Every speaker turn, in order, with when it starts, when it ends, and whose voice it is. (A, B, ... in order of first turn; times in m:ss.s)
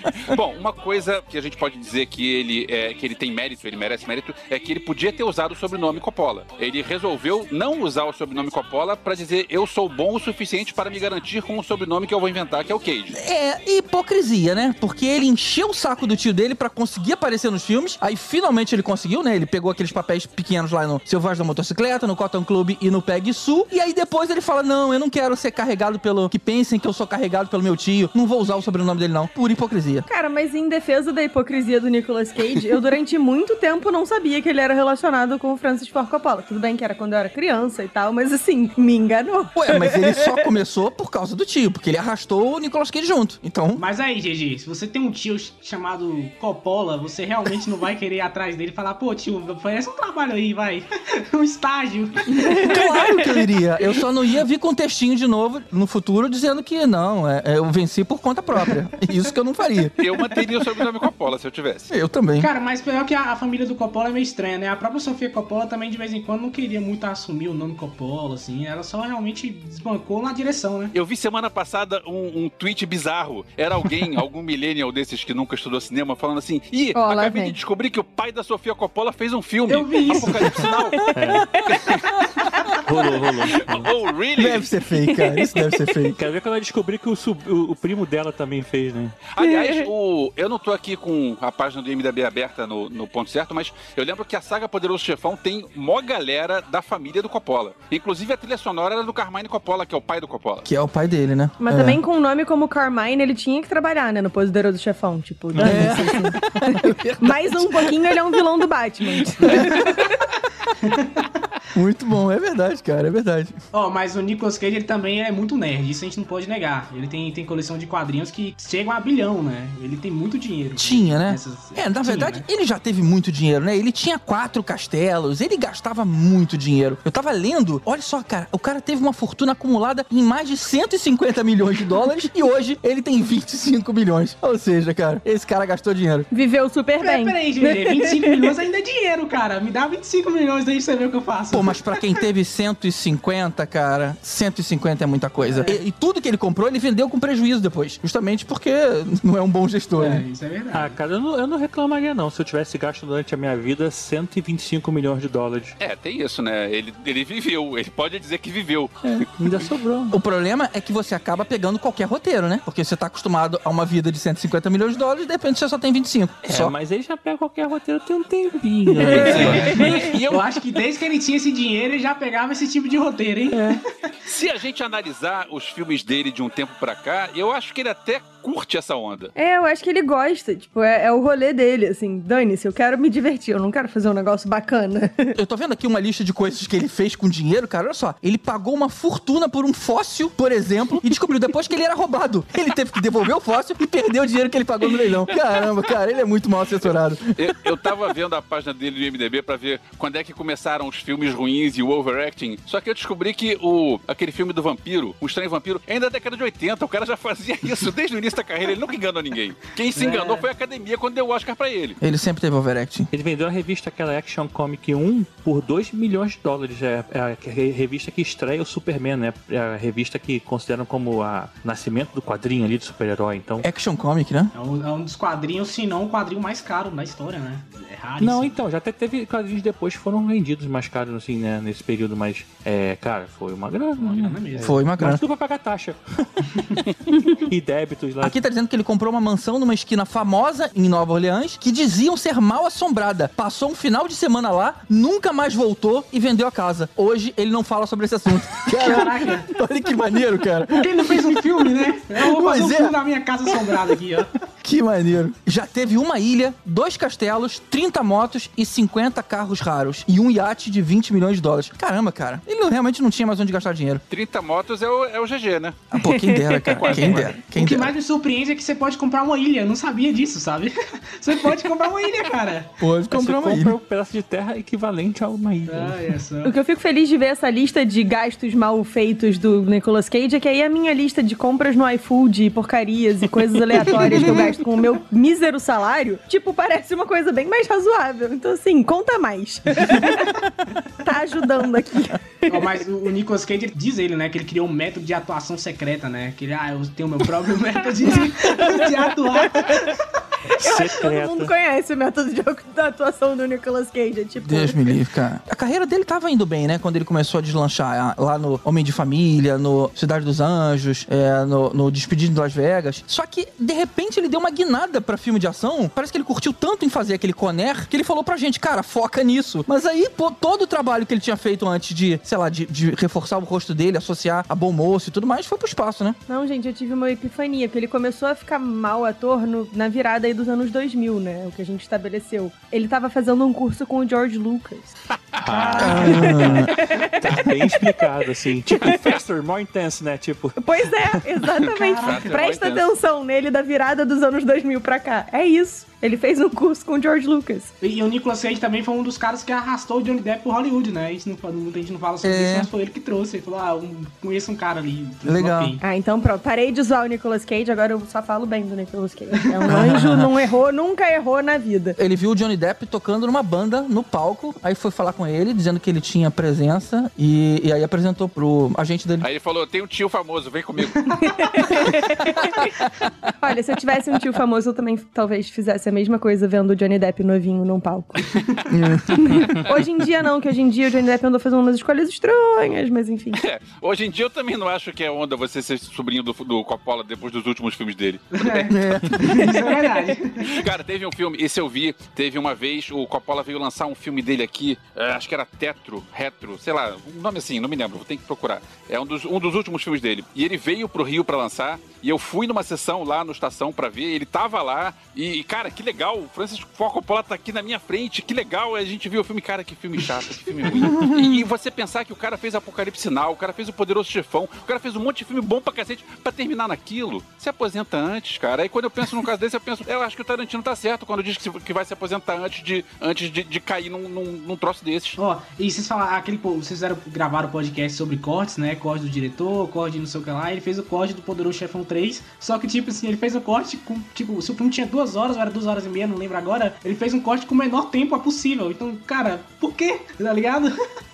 0:00.2-0:13.2 A
0:13.1-0:30.1 B
0:30.1-0:40.2 C
0:39.6-0:43.8 B
0:43.8-0:52.8 D
0:52.4-0:52.8 C
0:52.6-1:00.0 B
1:00.0-1:01.9 A
1:01.9-1:02.5 B
1:02.4-1:10.9 D
1:10.9-1:21.0 A
1:17.0-1:17.6 C
1:19.7-1:20.7 D
1:21.1-1:21.8 C
1:21.2-1:21.6 E
1:21.7-1:22.4 A
1:22.8-1:23.9 E
1:23.5-1:24.7 A
1:24.4-1:26.2 B
1:25.2-1:25.6 C
1:26.1-1:29.2 E
1:29.3-1:40.6 A
1:40.6-1:42.0 B
1:41.6-1:50.1 C
1:45.5-1:46.4 E
1:45.6-1:47.9 B
1:49.4-1:49.8 B
1:50.8-1:51.1 D
1:51.7-1:53.6 B
1:53.7-2:02.4 D
2:00.8-2:16.3 B
2:16.3-2:18.5 C
2:17.0-2:22.0 D
2:21.5-2:30.2 B
2:25.4-2:25.8 D
2:30.0-2:31.0 D
2:30.7-2:35.7 E
2:35.8-2:39.0 A
2:39.0-2:40.2 E
2:40.1-2:46.8 B
2:46.5-2:50.1 E
2:49.1-2:50.5 A
2:49.3-2:53.8 D
2:53.5-2:53.8 C
2:54.3-2:59.3 A
2:59.4-3:05.4 C
3:05.4-3:17.5 B
3:17.4-3:32.0 A
3:30.0-3:30.4 D
3:32.0-3:33.1 B
3:33.1-3:43.7 E
3:43.6-3:44.5 B
3:44.5-3:48.6 D
3:48.2-3:56.6 E
3:54.0-3:54.9 D
3:54.6-3:55.2 B
3:57.2-3:58.4 E
3:58.2-4:12.9 B
4:08.7-4:09.5 D
4:10.8-4:14.3 D
4:14.6-4:24.0 B
4:24.1-4:25.8 A
4:25.9-4:27.9 B
4:26.0-4:26.8 C
4:26.8-4:27.4 E
4:27.1-4:32.7 D
4:32.8-4:33.8 B
4:33.1-4:36.1 E
4:35.7-4:36.5 D
4:36.4-4:50.3 C
4:44.0-4:44.5 D
4:49.9-4:50.2 D
4:51.0-4:52.5 C
4:52.5-5:00.0 D
4:59.4-4:59.9 C
5:00.6-5:01.5 E
5:00.6-5:05.0 C
5:04.4-5:26.2 B
5:26.3-5:34.9 C
5:35.4-5:36.1 A
5:35.4-5:36.7 D
5:35.5-5:36.3 E
5:35.8-5:36.7 B
5:36.8-5:37.8 C
5:37.0-5:41.1 E
5:40.6-5:47.7 C
5:41.7-5:42.8 A
5:41.7-5:42.4 D
5:47.8-5:55.8 D
5:52.2-5:52.7 B
5:55.2-5:55.8 B
5:55.8-6:02.0 C
5:59.7-6:00.3 B
6:02.0-6:09.3 B
6:09.2-6:11.2 A
6:11.3-6:12.5 C
6:13.4-6:18.3 C
6:18.7-6:19.2 B
6:19.2-6:23.4 C
6:23.4-6:28.7 A
6:28.4-6:30.6 D
6:28.7-6:29.6 B
6:30.4-7:05.2 A
6:50.9-6:51.4 B
7:05.2-7:20.8 D